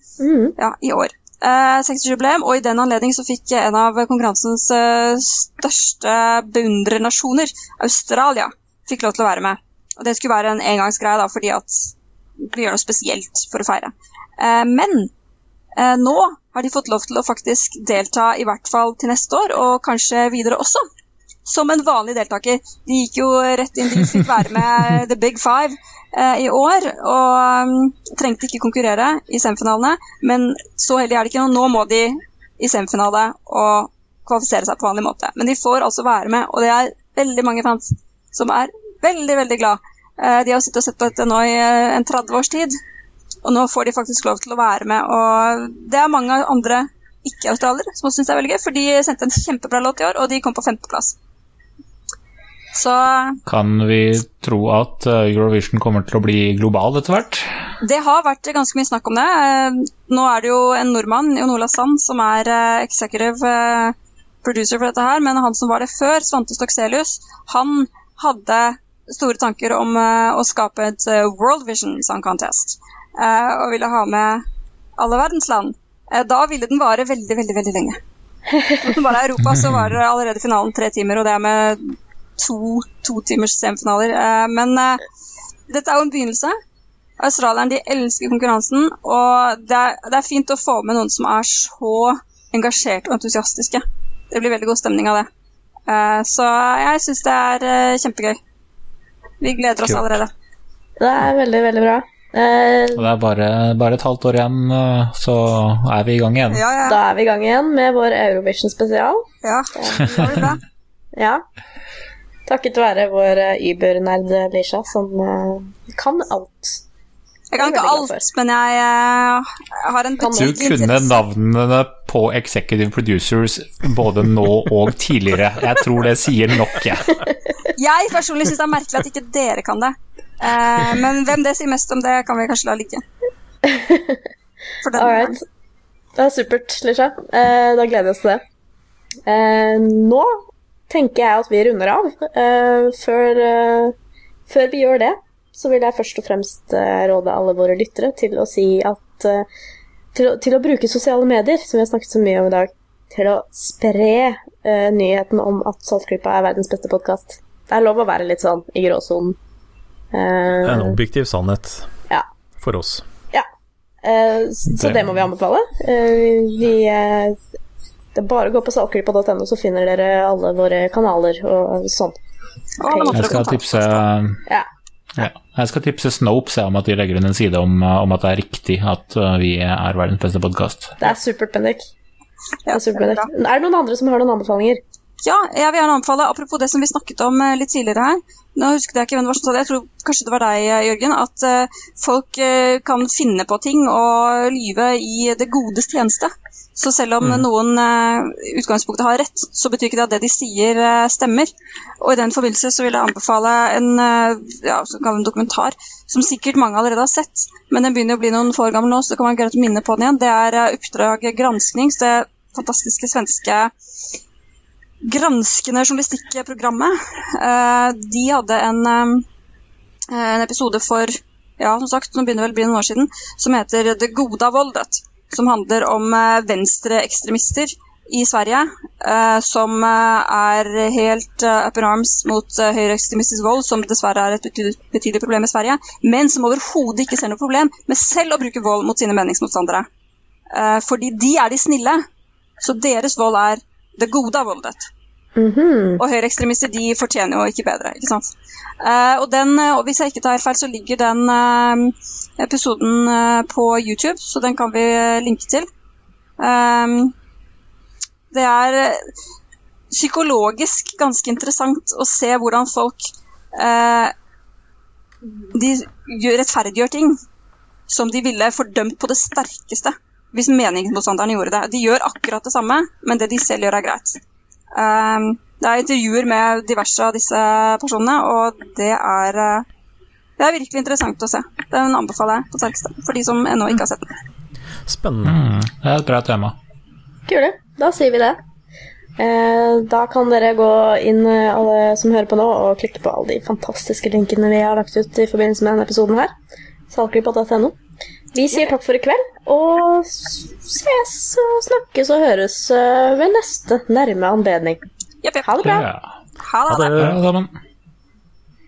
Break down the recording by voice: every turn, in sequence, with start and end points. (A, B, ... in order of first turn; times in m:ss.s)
0:00.2-0:00.6 A
0:00.6-0:15.1 B
0:15.8-0:20.8 B
0:21.4-0:42.7 B
0:43.4-0:51.2 B
0:52.7-0:53.4 B
0:53.4-0:57.5 C
0:57.8-1:14.4 B
1:15.0-1:18.0 B
1:18.7-1:25.0 B
1:25.7-1:26.5 B
1:27.2-1:35.3 B
1:35.9-1:38.4 B
1:39.4-1:40.3 B
1:41.0-1:43.1 A
1:42.9-1:46.6 C
1:46.5-1:47.0 B
1:46.8-1:49.2 A
1:49.4-1:50.6 B
1:49.8-1:50.2 A
1:51.2-1:51.4 A
1:52.5-1:56.8 A
1:57.5-2:01.2 B
1:57.6-1:58.2 A
2:00.2-2:00.8 A
2:00.3-2:07.2 C
2:07.7-2:13.0 B
2:13.6-2:14.2 A
2:14.8-2:15.3 B
2:14.9-2:15.4 A
2:16.2-2:18.4 A
2:19.2-2:23.9 A
2:24.5-2:29.4 A
2:30.1-2:39.4 A
2:40.1-2:41.0 A
2:40.6-2:41.9 D
2:42.6-2:43.0 D
2:44.0-2:47.4 A
2:44.7-2:45.1 C
2:48.1-2:52.2 A
2:52.8-2:54.0 B
2:52.8-2:53.4 A
2:53.1-2:54.4 C
2:55.2-3:01.0 C
3:01.0-3:01.9 A
3:02.7-3:03.3 B
3:02.7-3:04.8 A
3:05.2-3:21.5 B
3:22.0-3:33.7 B
3:35.0-3:39.2 B
3:40.1-3:59.8 B
4:00.5-4:02.0 B
4:02.6-4:04.9 B
4:05.4-4:06.0 A
4:06.0-4:08.3 B
4:08.8-4:15.6 B
4:16.4-4:17.1 B
4:18.3-4:19.0 B
4:19.9-4:24.1 B
4:25.2-4:27.1 B
4:27.9-4:34.2 B
4:34.7-4:39.6 B
4:40.4-4:44.1 B
4:44.9-4:45.4 D
4:45.2-4:46.6 C
4:47.3-4:48.4 A
4:49.2-4:56.3 A
4:56.9-4:57.8 A
4:58.3-5:04.8 A
5:05.2-5:05.8 B
5:05.4-5:05.9 A
5:05.6-5:06.1 C
5:06.4-5:07.0 B
5:06.7-5:07.2 D
5:06.9-5:07.5 C